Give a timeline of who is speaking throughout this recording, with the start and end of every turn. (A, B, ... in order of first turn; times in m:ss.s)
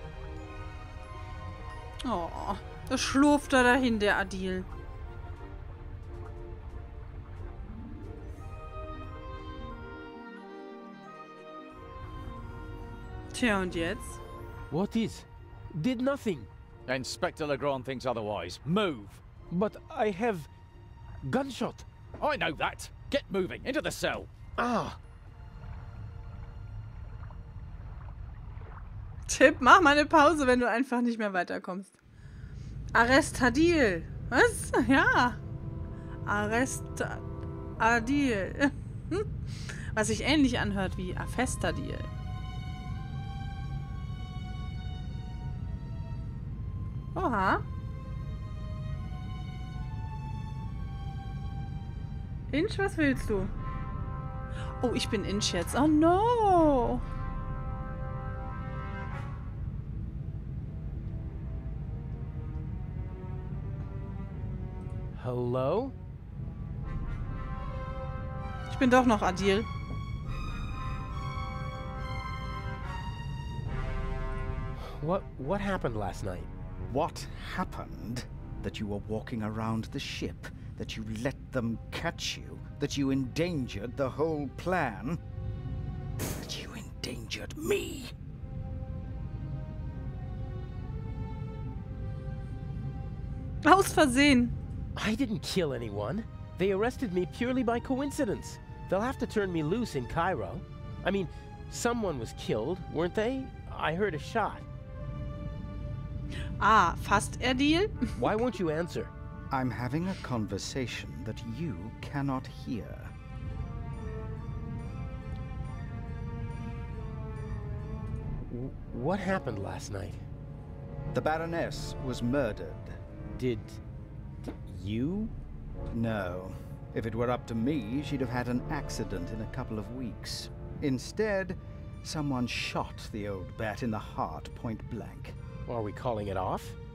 0:02.0-0:04.7 A
0:13.3-0:14.2 A
0:14.7-0:16.5 B
0:16.9-0:19.2 C
0:19.5-0:20.5 B
0:21.2-0:21.9 B
0:22.2-0:24.3 C
0:24.6-0:25.0 B
0:29.3-0:31.9 A
0:32.9-0:35.4 A
0:36.3-0:37.2 A
0:37.8-0:42.1 A
0:47.2-0:47.6 A
0:52.5-0:53.5 A
0:54.8-0:57.0 A
1:05.2-1:06.0 B
1:08.7-1:09.7 A
1:14.8-1:16.5 B
1:16.9-1:25.2 D
1:26.3-1:28.1 D
1:33.6-1:34.5 A
1:35.0-1:44.6 B
1:46.6-1:48.3 A
1:48.2-1:49.1 B
1:49.5-1:53.1 D
1:58.4-2:00.2 B
2:01.1-2:03.0 D
2:03.4-2:03.8 B
2:04.4-2:05.3 B
2:05.9-2:15.4 D
2:15.7-2:16.8 B